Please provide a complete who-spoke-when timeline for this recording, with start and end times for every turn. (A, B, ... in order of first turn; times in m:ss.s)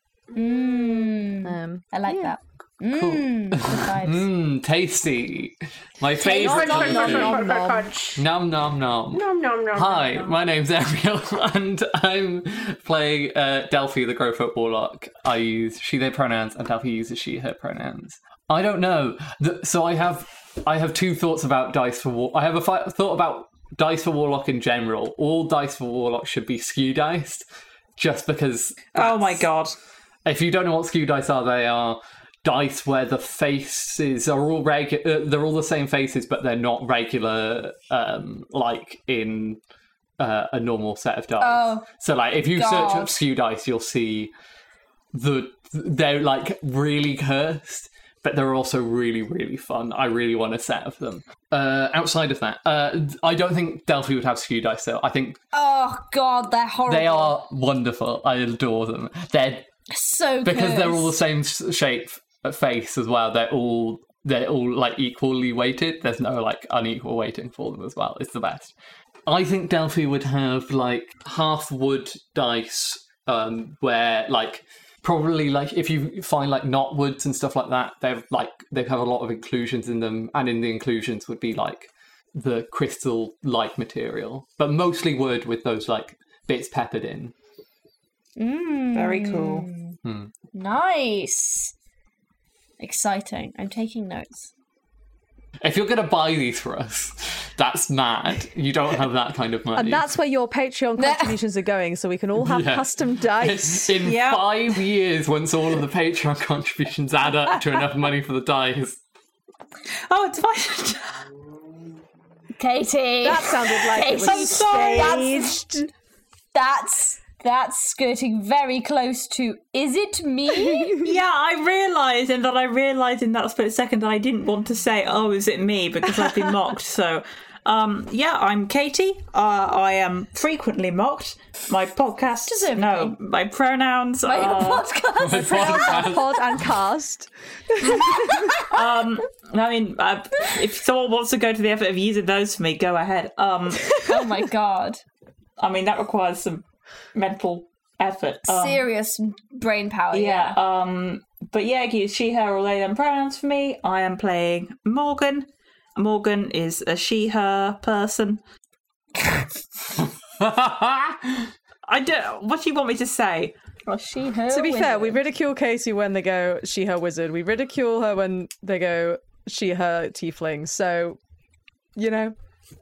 0:00.3-0:01.2 A
0:00.4-0:04.3 B
0:01.4-0:02.3 C
0:02.9-0:07.4 D
0:06.2-0:08.2 A
0:06.2-0:07.9 C
0:08.2-0:27.4 D
0:09.1-0:10.4 A
0:28.0-0:29.4 D
0:28.9-0:29.8 E
0:30.2-0:39.6 D
0:40.2-0:44.3 D
0:41.4-0:41.9 B
0:42.6-0:43.2 B
0:45.1-0:55.4 D
0:55.5-0:57.4 B
0:56.9-0:59.7 D
0:59.9-1:01.2 B
1:00.4-1:08.7 D
1:09.3-1:27.3 D
1:28.4-1:30.0 B
1:28.9-1:29.7 E
1:30.0-1:30.3 D
1:30.5-1:31.7 B
1:32.8-1:34.5 B
1:35.6-1:40.1 D
1:39.8-1:43.9 C
1:41.0-1:41.3 B
1:42.4-1:49.0 D
1:44.0-1:44.6 E
1:50.1-1:51.1 E
1:52.6-1:55.6 B
1:53.2-1:55.9 C
1:54.1-1:55.3 E
1:56.5-2:01.0 B
2:01.0-2:14.9 E
2:12.5-2:13.2 B
2:14.2-2:16.2 B
2:15.2-2:16.6 D
2:15.4-2:18.5 C
2:17.9-2:18.7 B
2:18.5-2:24.0 E
2:24.0-2:25.0 B
2:25.6-2:26.6 E
2:27.1-2:28.8 E
2:28.5-2:30.6 B
2:30.1-2:38.4 E
2:40.4-2:41.5 D
2:41.9-2:43.5 E
2:43.9-2:45.2 B
2:44.5-2:51.2 C
2:52.0-2:52.4 C